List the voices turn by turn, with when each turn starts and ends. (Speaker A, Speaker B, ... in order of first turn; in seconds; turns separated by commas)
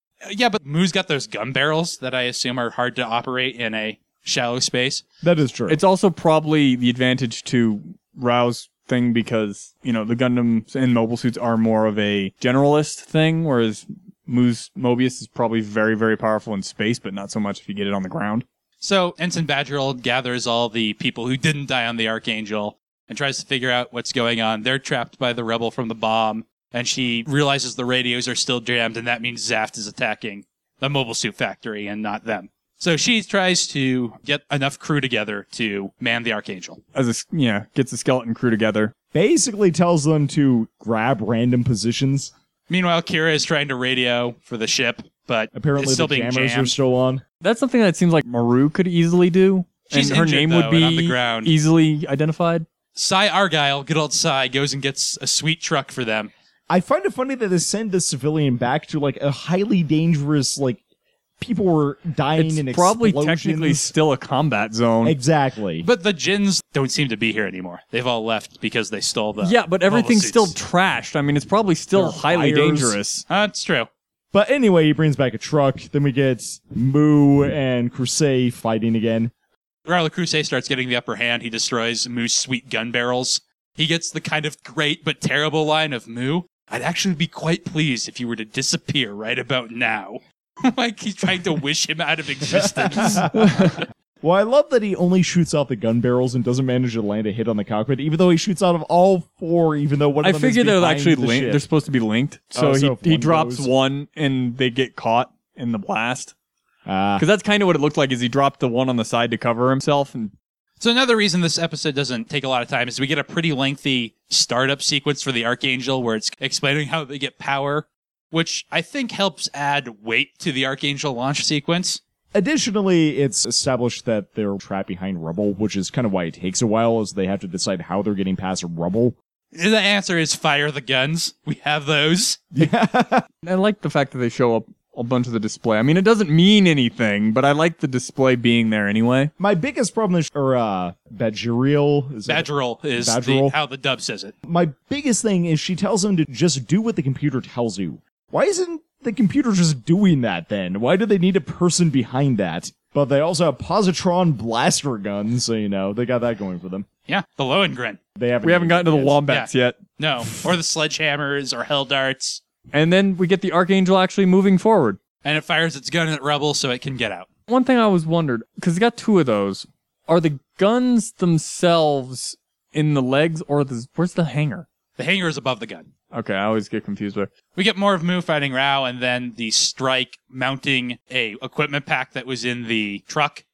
Speaker A: 0.2-5.0, Speaker B: 5.2-5.8, Speaker C: 5.7-18.4, Speaker A: 18.8-36.8, Speaker C: 37.0-38.9, Speaker B: 39.1-42.3, Speaker A: 42.7-46.7, Speaker B: 45.5-47.2, Speaker C: 47.4-52.7, Speaker A: 49.9-51.5, Speaker A: 53.0-56.3, Speaker B: 56.7-60.8, Speaker B: 61.4-63.9, Speaker C: 62.4-65.2, Speaker B: 65.0-65.9, Speaker A: 65.8-70.6, Speaker C: 69.4-73.2, Speaker B: 71.9-73.0, Speaker A: 73.3-73.9, Speaker B: 74.3-79.3, Speaker A: 79.9-93.3, Speaker B: 92.5-101.6, Speaker C: 93.3-93.8, Speaker C: 100.2-106.3, Speaker B: 102.5-103.7, Speaker B: 106.9-107.3, Speaker C: 107.2-110.3, Speaker A: 110.8-122.0, Speaker B: 122.3-129.2, Speaker A: 129.5-132.5, Speaker B: 132.5-133.3, Speaker C: 133.4-139.3, Speaker B: 139.4-143.6, Speaker A: 142.3-144.3, Speaker B: 144.4-156.9, Speaker A: 157.1-158.0, Speaker B: 158.2-159.2, Speaker C: 158.4-159.8, Speaker A: 159.3-162.4, Speaker C: 162.7-165.0, Speaker A: 165.2-167.3, Speaker C: 167.5-174.7, Speaker A: 175.0-175.9, Speaker C: 176.1-177.3, Speaker A: 177.5-183.4